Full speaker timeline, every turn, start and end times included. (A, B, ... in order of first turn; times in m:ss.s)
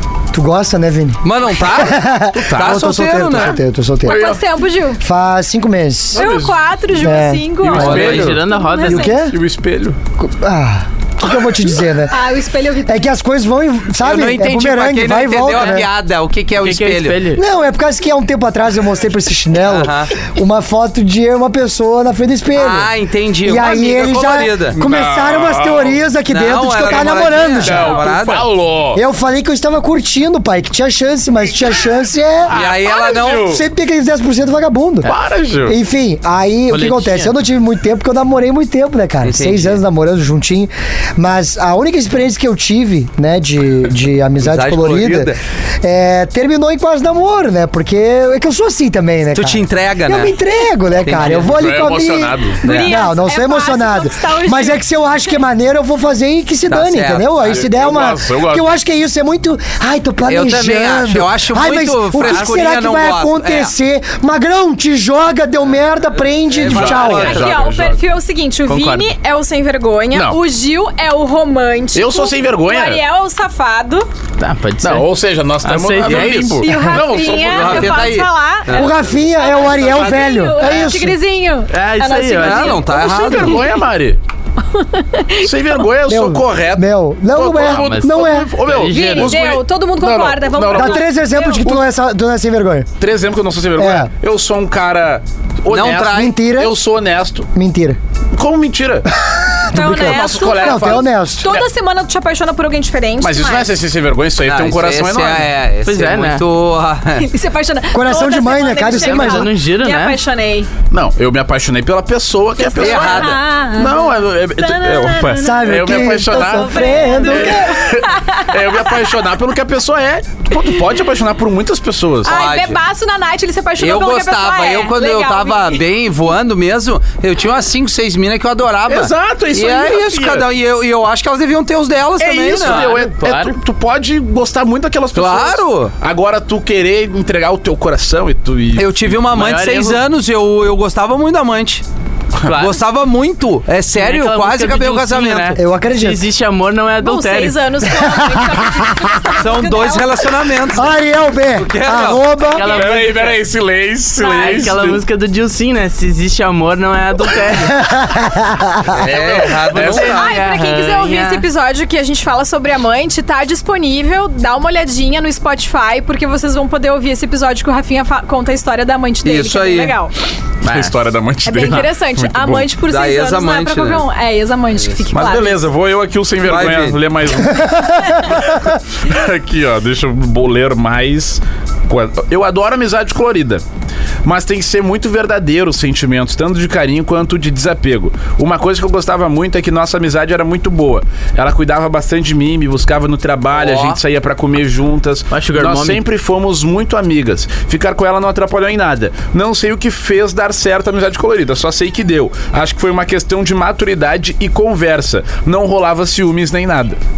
0:00.3-0:04.2 A
0:01.2-0:02.0 B
0:02.3-0:02.9 C
0:02.5-0:03.6 B
0:04.0-0:05.0 D
0:04.0-0:04.4 C
0:05.0-0:06.2 A
0:06.1-0:06.6 C
0:06.1-0:09.3 D
0:06.9-0:07.5 A
0:07.6-0:08.4 C
0:07.7-0:09.1 E
0:07.7-0:08.4 B
0:08.8-0:09.4 A
0:09.2-0:10.0 C
0:10.2-0:12.2 A
0:12.1-0:13.0 D
0:12.8-0:15.9 A
0:14.0-0:17.2 B
0:16.6-0:17.4 E
0:17.4-0:22.9 A
0:19.6-0:20.1 B
0:22.5-0:24.8 B
0:23.4-0:28.0 A
0:24.8-0:26.0 C
0:26.3-0:28.5 B
0:27.6-0:29.0 C
0:28.9-0:32.5 A
0:32.5-0:33.6 C
0:32.5-0:33.6 B
0:33.4-0:35.1 A
0:35.0-0:35.8 C
0:35.6-1:07.4 A
0:36.7-0:37.4 E
0:39.2-0:39.8 B
0:44.4-0:45.4 B
0:49.3-0:50.3 B
0:51.0-0:51.6 B
0:51.4-0:52.6 C
0:52.6-0:54.8 D
0:52.6-0:53.0 B
0:56.7-0:57.6 B
0:57.4-0:58.7 C
1:00.3-1:03.7 B
1:06.4-1:07.7 B
1:06.6-1:08.0 C
1:07.0-1:14.0 D
1:08.7-1:09.1 E
1:10.1-1:10.4 C
1:11.9-1:13.0 C
1:14.4-1:15.0 E
1:14.8-1:18.1 C
1:15.6-1:16.7 E
1:16.2-1:23.8 D
1:17.2-1:18.9 B
1:18.7-1:21.2 A
1:21.7-1:22.8 E
1:22.4-1:23.6 B
1:23.1-1:24.2 C
1:24.7-1:25.5 D
1:25.4-1:31.0 C
1:26.1-1:28.5 A
1:27.6-1:29.4 E
1:28.9-1:31.7 D
1:30.7-1:32.9 A
1:33.0-1:37.5 C
1:33.8-1:34.1 A
1:35.7-1:36.3 B
1:36.0-1:36.8 A
1:37.5-1:38.0 A
1:38.3-1:41.6 C
1:39.7-1:41.5 A
1:39.7-1:43.7 D
1:43.2-1:45.5 C
1:44.4-1:47.3 B
1:45.8-1:46.4 E
1:47.2-1:50.7 D
1:47.9-1:49.5 A
1:48.9-1:50.2 E
1:50.9-2:02.4 C
1:52.6-1:58.6 D
1:52.8-1:53.4 B
1:55.4-1:57.8 A
2:02.2-2:02.8 B
2:02.2-2:05.8 D
2:03.8-2:12.9 B
2:08.9-2:10.4 C
2:12.2-2:19.2 C
2:12.6-2:13.6 E
2:15.1-2:15.9 B
2:18.8-2:21.8 B
2:19.3-2:20.0 E
2:22.4-2:22.8 E
2:22.4-2:25.6 B
2:23.9-2:27.6 E
2:25.6-2:26.2 A
2:27.0-2:30.4 D
2:27.9-2:29.1 A
2:29.4-2:31.0 B
2:30.7-2:32.7 A
2:31.5-2:32.2 B
2:32.4-2:33.4 E
2:32.6-2:35.0 C
2:34.2-2:37.8 E
2:34.4-2:34.6 D
2:37.7-2:38.9 A
2:38.9-2:40.1 C
2:39.0-2:40.4 B
2:39.5-2:41.4 E
2:40.0-2:50.1 D
2:49.2-2:50.0 B
2:50.6-2:50.9 E
2:50.6-2:52.7 C
2:51.4-2:55.6 D
2:52.9-2:54.0 B
2:55.1-3:03.6 C
2:56.4-2:57.0 B
2:57.5-2:58.4 A
3:04.2-3:27.0 C
3:13.5-3:14.0 B
3:15.3-3:16.0 E